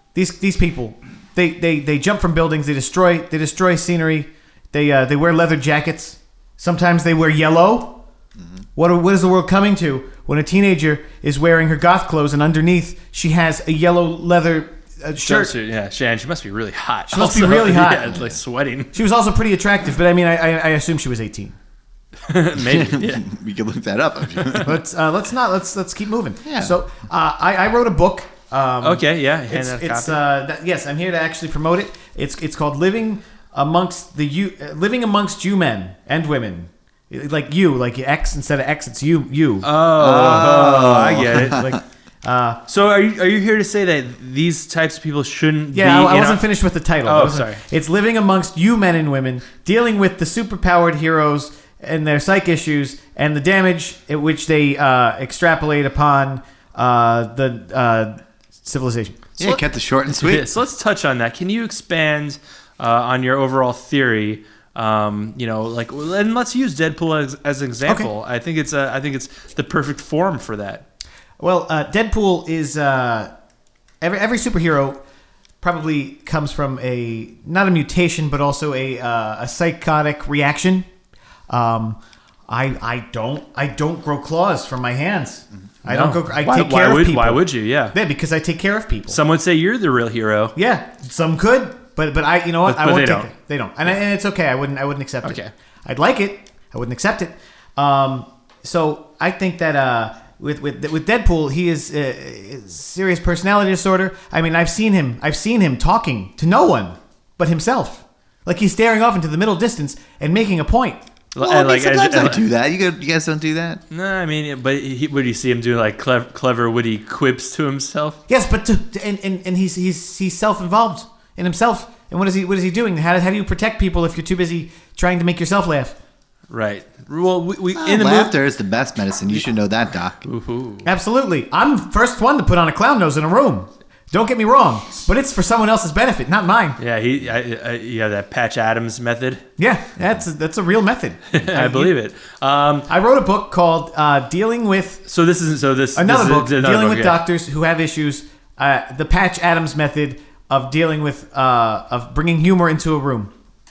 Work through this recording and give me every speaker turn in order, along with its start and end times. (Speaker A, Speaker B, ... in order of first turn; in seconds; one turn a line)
Speaker A: 0.1-8.0
Speaker A: 8.8-15.6
Speaker B: 15.2-18.9
Speaker A: 17.1-18.2
Speaker A: 18.9-21.6
Speaker B: 22.3-23.2
Speaker C: 22.6-24.8
Speaker B: 24.4-24.6
Speaker A: 24.6-39.7
Speaker C: 26.4-26.8
Speaker B: 28.8-30.2
Speaker B: 39.6-41.6
Speaker C: 40.0-41.8
Speaker A: 41.4-42.6
Speaker B: 42.7-46.4
Speaker A: 45.7-59.2
Speaker B: 47.0-47.6
Speaker C: 59.4-60.5
Speaker B: 60.2-70.9
Speaker A: 71.4-73.3
Speaker A: 74.0-75.0
Speaker A: 75.6-80.9
Speaker A: 81.5-89.2
Speaker B: 85.9-88.0
Speaker B: 89.1-90.5
Speaker A: 90.5-111.0
Speaker B: 92.7-93.3
Speaker B: 95.2-95.5
Speaker B: 111.3-112.5
Speaker C: 111.4-113.8
Speaker B: 113.9-118.2
Speaker A: 118.3-126.0
Speaker B: 126.5-128.3
Speaker C: 127.8-130.2
Speaker B: 130.2-130.9
Speaker A: 130.8-136.8
Speaker B: 136.8-139.4
Speaker A: 139.6-141.9
Speaker B: 141.3-142.9
Speaker A: 142.9-145.1
Speaker B: 145.1-147.2
Speaker A: 145.9-153.3